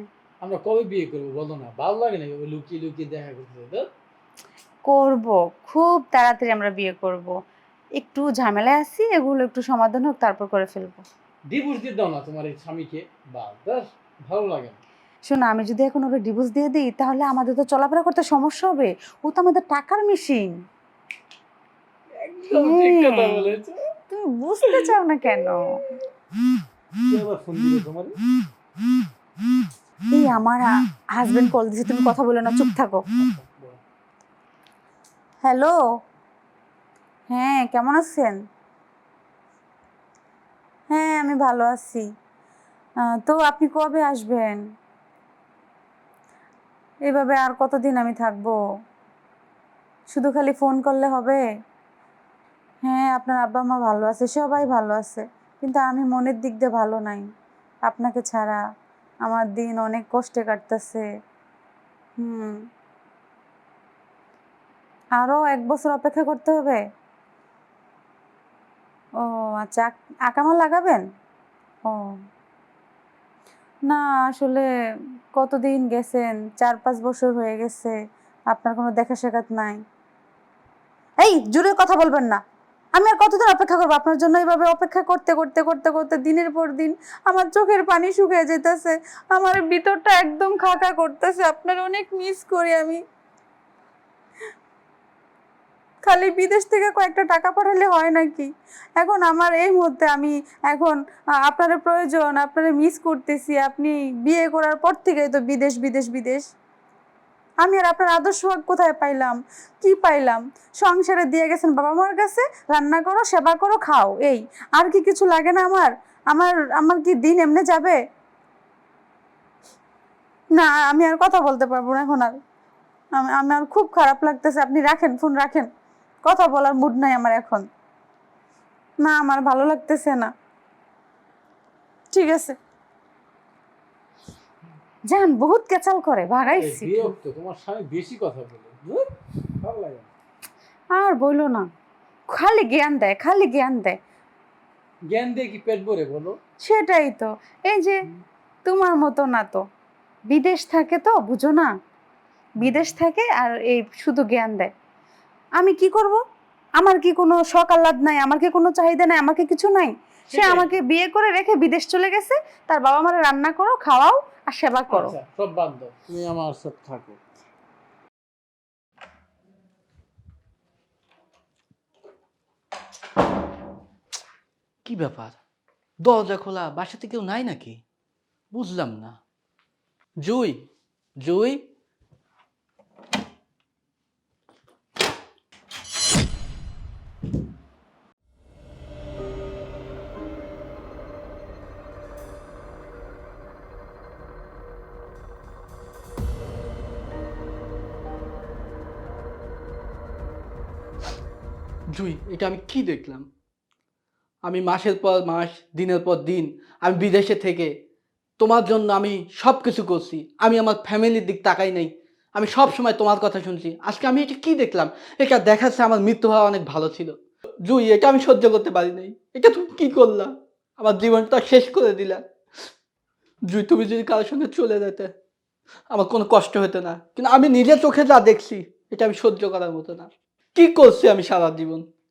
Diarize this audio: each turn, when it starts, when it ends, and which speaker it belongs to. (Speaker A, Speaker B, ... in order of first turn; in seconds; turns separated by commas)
Speaker A: 0.4-3.9, Speaker B: 4.8-7.3, Speaker B: 8.0-11.0, Speaker A: 11.5-14.8, Speaker B: 15.2-20.6, Speaker A: 22.2-23.8, Speaker B: 22.6-23.4, Speaker B: 24.1-25.6, Speaker A: 27.0-28.1, Speaker B: 30.1-33.0, Speaker A: 33.1-33.8, Speaker B: 35.4-35.8, Speaker B: 37.3-38.4, Speaker B: 40.9-42.0, Speaker B: 43.1-44.6, Speaker B: 47.1-48.6, Speaker B: 50.1-51.4, Speaker B: 52.8-57.3, Speaker B: 57.9-58.6, Speaker B: 59.2-61.0, Speaker B: 62.2-62.6, Speaker B: 65.2-66.8, Speaker B: 69.2-71.0, Speaker B: 71.8-72.2, Speaker B: 73.9-74.7, Speaker B: 75.3-78.0, Speaker B: 78.5-79.8, Speaker B: 81.2-82.4, Speaker B: 82.9-93.0, Speaker B: 96.0-106.5, Speaker B: 107.6-118.0, Speaker B: 120.5-122.4, Speaker B: 123.1-125.7, Speaker B: 126.2-127.7, Speaker B: 129.0-130.3, Speaker B: 132.1-132.6, Speaker B: 135.1-137.0, Speaker A: 136.5-140.1, Speaker B: 140.9-141.7, Speaker B: 142.3-144.0, Speaker A: 145.1-146.3, Speaker B: 146.6-148.0, Speaker B: 148.6-149.7, Speaker B: 150.3-151.7, Speaker A: 152.6-152.9, Speaker B: 152.6-154.7, Speaker B: 155.6-156.2, Speaker B: 156.8-165.2, Speaker A: 160.3-160.8, Speaker A: 164.9-167.2, Speaker C: 174.8-175.4, Speaker C: 176.0-177.8, Speaker C: 178.5-179.2, Speaker C: 180.2-180.7, Speaker C: 181.2-181.6, Speaker C: 201.9-203.2, Speaker C: 204.5-207.7, Speaker C: 208.4-222.2, Speaker C: 223.5-225.1, Speaker C: 225.9-231.8